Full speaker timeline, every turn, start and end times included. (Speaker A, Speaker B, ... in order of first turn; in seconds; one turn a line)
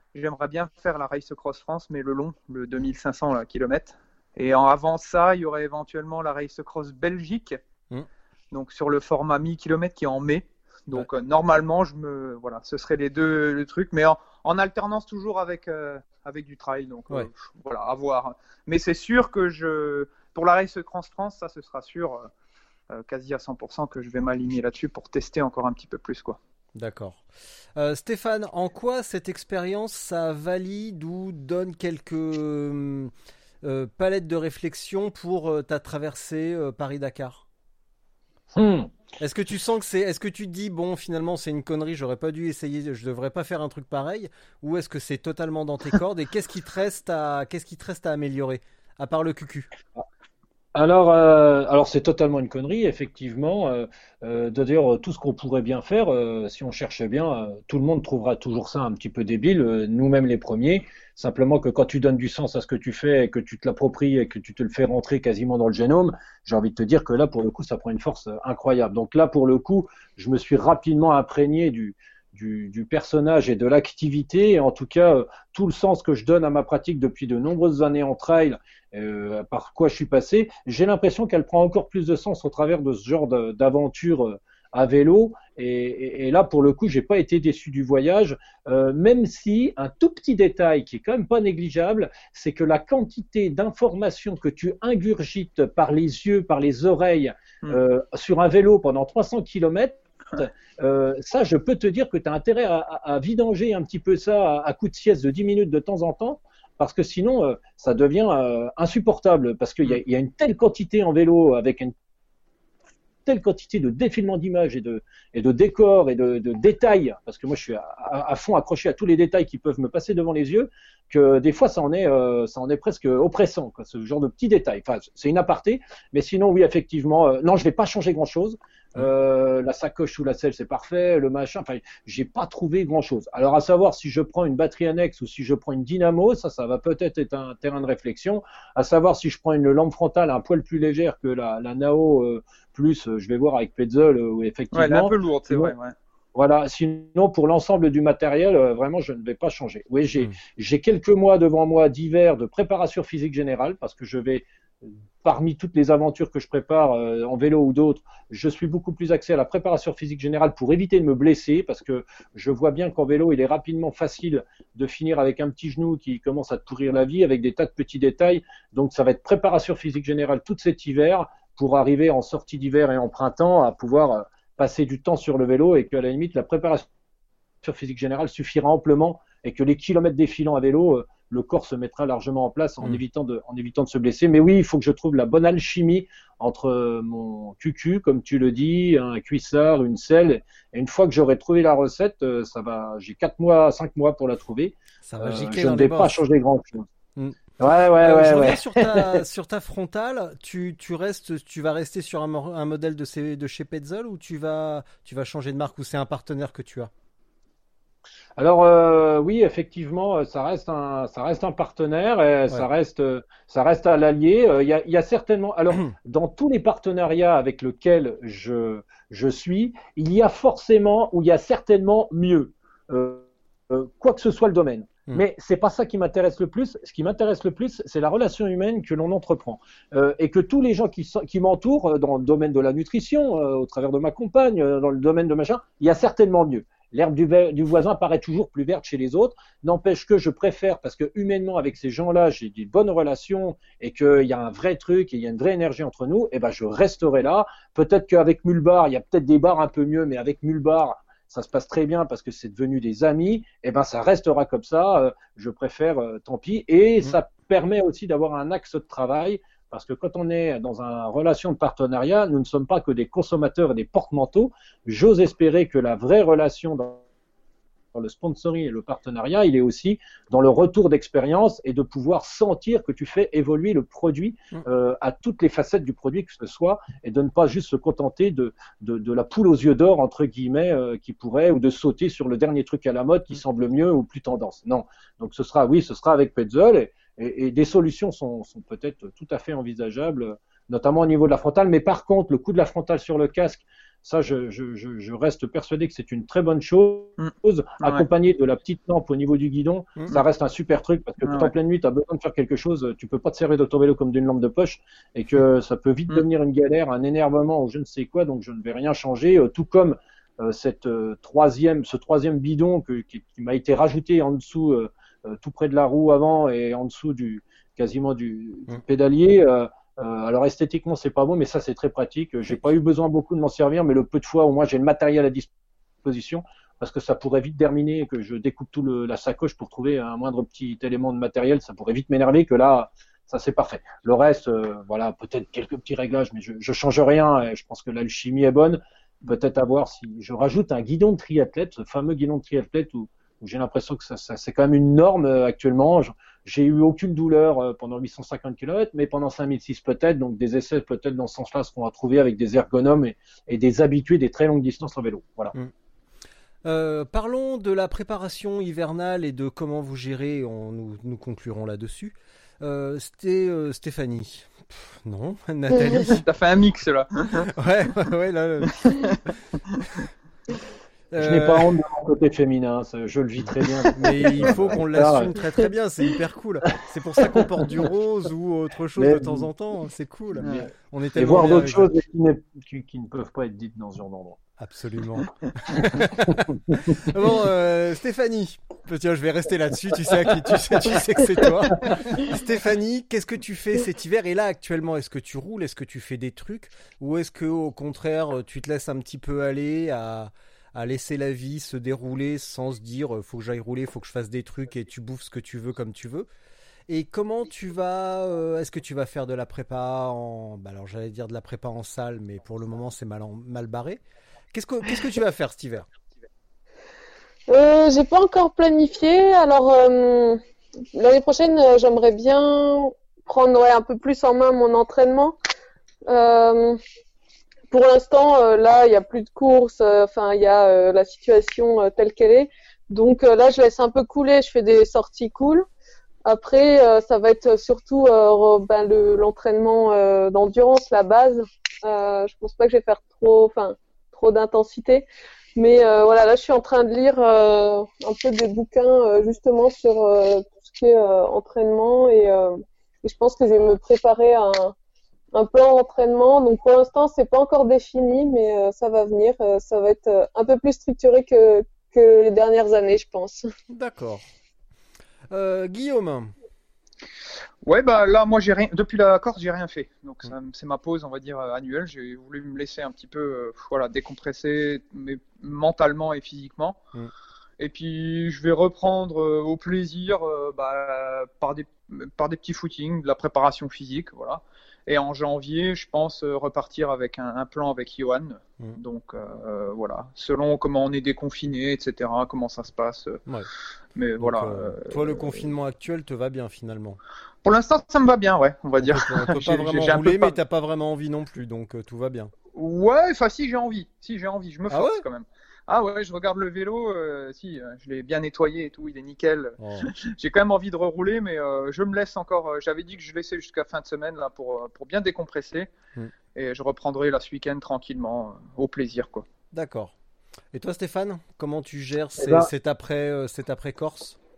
Speaker A: 0.1-7.6
Speaker A: 8.5-22.3
Speaker A: 22.9-26.4
Speaker B: 26.8-27.2
Speaker B: 27.8-33.1
Speaker B: 33.6-37.5
Speaker C: 38.5-38.9
Speaker B: 39.2-49.7
Speaker C: 50.8-111.9
Speaker C: 113.3-145.7
Speaker A: 144.7-145.9
Speaker C: 146.3-176.9
Speaker C: 177.6-196.9
Speaker B: 195.0-196.2
Speaker B: 197.2-197.4
Speaker C: 197.6-199.2
Speaker B: 198.0-206.9
Speaker C: 208.4-267.1
Speaker C: 267.9-325.5
Speaker A: 297.2-298.1
Speaker A: 301.2-301.5
Speaker C: 326.0-355.5
Speaker B: 356.6-366.2
Speaker A: 366.0-367.5
Speaker B: 367.6-369.2
Speaker A: 368.9-369.2
Speaker B: 371.1-371.8
Speaker C: 371.2-375.5
Speaker B: 373.9-381.9
Speaker C: 377.2-377.5
Speaker C: 379.0-379.5
Speaker C: 380.4-384.4
Speaker A: 380.4-380.7
Speaker B: 384.6-406.3
Speaker C: 386.2-387.0
Speaker B: 406.9-414.0
Speaker B: 414.5-415.9
Speaker D: 417.5-420.4
Speaker D: 420.9-425.4
Speaker D: 426.1-426.8
Speaker D: 427.7-435.6
Speaker D: 436.2-454.8
Speaker D: 455.3-463.5
Speaker B: 463.7-464.2
Speaker B: 465.3-466.3
Speaker A: 467.6-476.8
Speaker A: 477.6-493.2
Speaker A: 494.0-495.5
Speaker B: 494.2-497.0
Speaker A: 497.4-500.4
Speaker B: 498.8-502.3
Speaker A: 502.5-515.7
Speaker B: 504.7-505.1
Speaker B: 509.6-509.9
Speaker A: 516.4-519.3
Speaker B: 519.5-520.0
Speaker B: 520.5-524.2
Speaker C: 522.2-522.5